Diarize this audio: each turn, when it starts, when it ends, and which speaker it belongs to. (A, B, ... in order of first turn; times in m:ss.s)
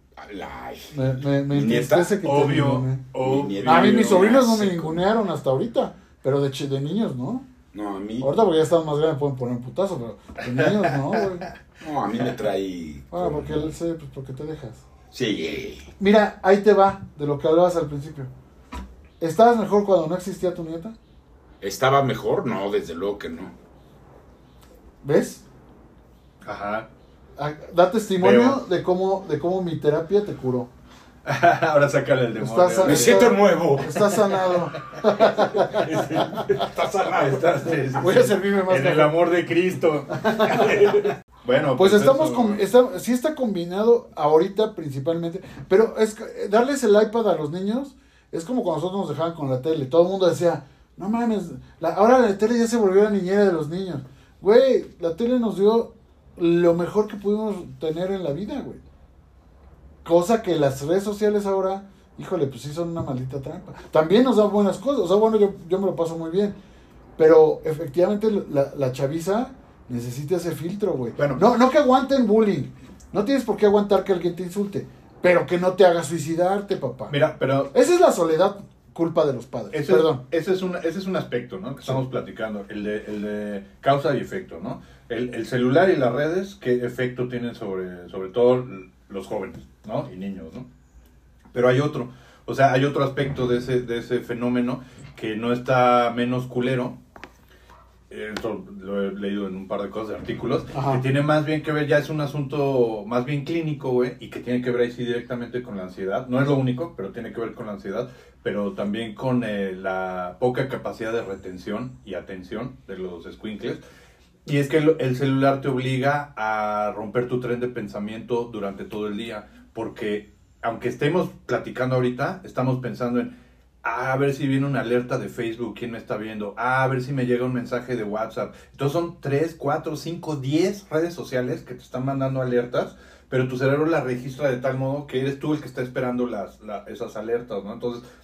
0:00.2-0:00.9 A
0:00.9-0:03.0 B
0:01.5-0:02.2 A
0:02.2-0:04.3 C
0:03.2-0:05.0 A
0:03.6-0:07.4 B
0:07.7-0:08.3 A
0:08.2-0:11.5 B
0:10.6-0:11.2 C
0:11.8-0:13.7 A
0:13.1-0:14.8 B
0:15.1-0:15.9 A
0:16.0-0:18.3 B
0:19.2-0:21.0 B
0:21.6-0:23.5 A
0:25.0-0:25.4 B
0:26.4-0:26.9 C
0:27.4-0:30.7 B
0:28.2-0:28.6 C
0:31.2-0:33.3 C
0:32.4-0:36.4 B
0:32.8-0:34.0 A
0:34.0-0:42.6 C
0:35.4-0:37.9 A
0:38.0-0:39.1 B
0:40.1-0:40.8 B
0:40.4-0:41.1 A
0:41.8-0:58.8 B
1:00.0-1:06.6 B
1:07.2-1:17.1 B
1:11.2-1:11.4 C
1:17.1-1:17.7 C
1:17.7-1:20.2 B
1:19.7-1:30.6 C
1:31.5-1:37.0 C
1:38.1-1:53.8 C
1:40.7-1:41.0 B
1:54.4-2:03.3 C
2:03.8-2:18.0 C